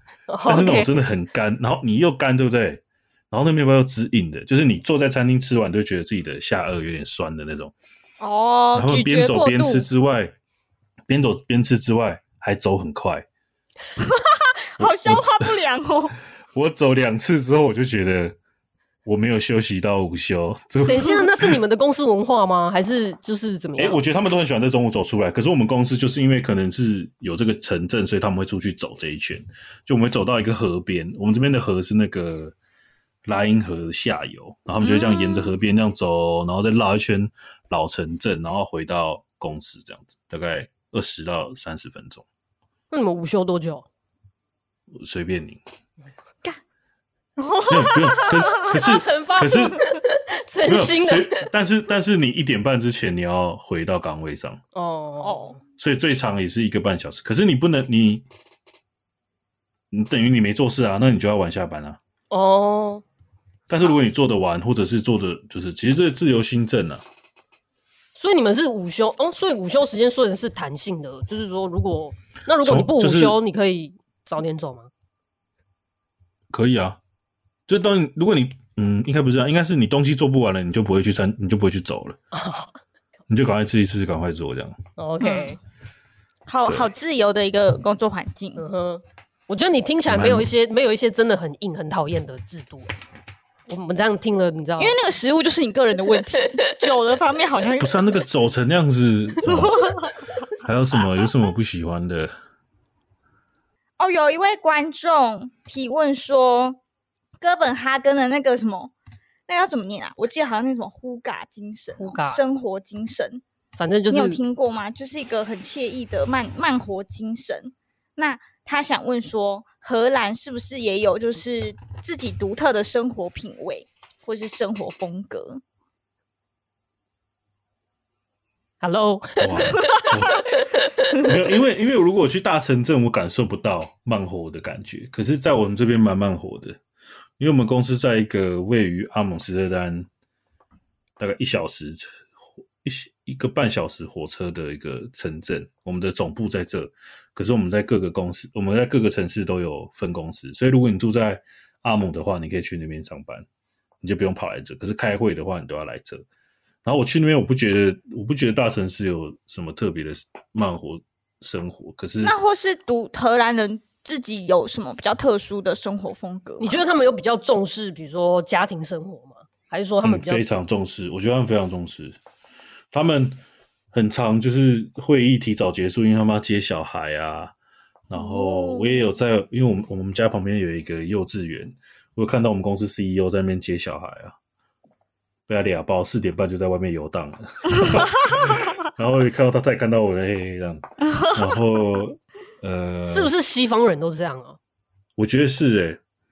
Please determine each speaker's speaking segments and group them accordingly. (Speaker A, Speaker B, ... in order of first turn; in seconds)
Speaker A: 0.3-1.0, 20.8-24.0, 42.9-43.9, 48.1-51.5, 54.7-55.6, 62.3-63.0, 68.1-74.9, 82.3-82.7, 85.0-85.6, 88.6-92.9, 93.7-95.0, 112.0-112.4, 113.8-114.4, 128.8-131.2, 166.6-170.4, 193.0-194.6
Speaker B: 0.5-7.7, 8.7-10.3, 11.1-13.2, 14.8-15.5, 16.5-18.4, 19.0-21.6, 23.8-32.5, 33.2-42.2, 44.9-45.6, 47.7-49.8, 50.6-54.6, 55.8-58.2, 59.9-62.0, 63.7-67.0, 72.6-73.4, 76.5-77.0, 77.7-82.2, 83.3-84.8, 90.1-90.5, 97.8-99.9, 100.6-102.3, 129.4-130.4, 131.1-136.8, 137.4-140.1, 141.2-142.2, 142.8-153.4, 154.0-156.2, 156.8-162.3, 170.0-172.2, 172.9-173.4, 173.9-177.5, 178.1-184.3, 185.5-193.3, 195.2-196.0
Speaker C: 8.2-9.9, 14.0-16.1, 34.8-35.5, 47.4-48.6, 55.2-55.5, 85.2-85.5, 86.5-88.6, 94.8-98.0, 99.4-100.2, 104.0-106.8, 107.4-108.9, 109.5-113.4, 114.1-125.6, 162.2-166.8, 178.1-179.2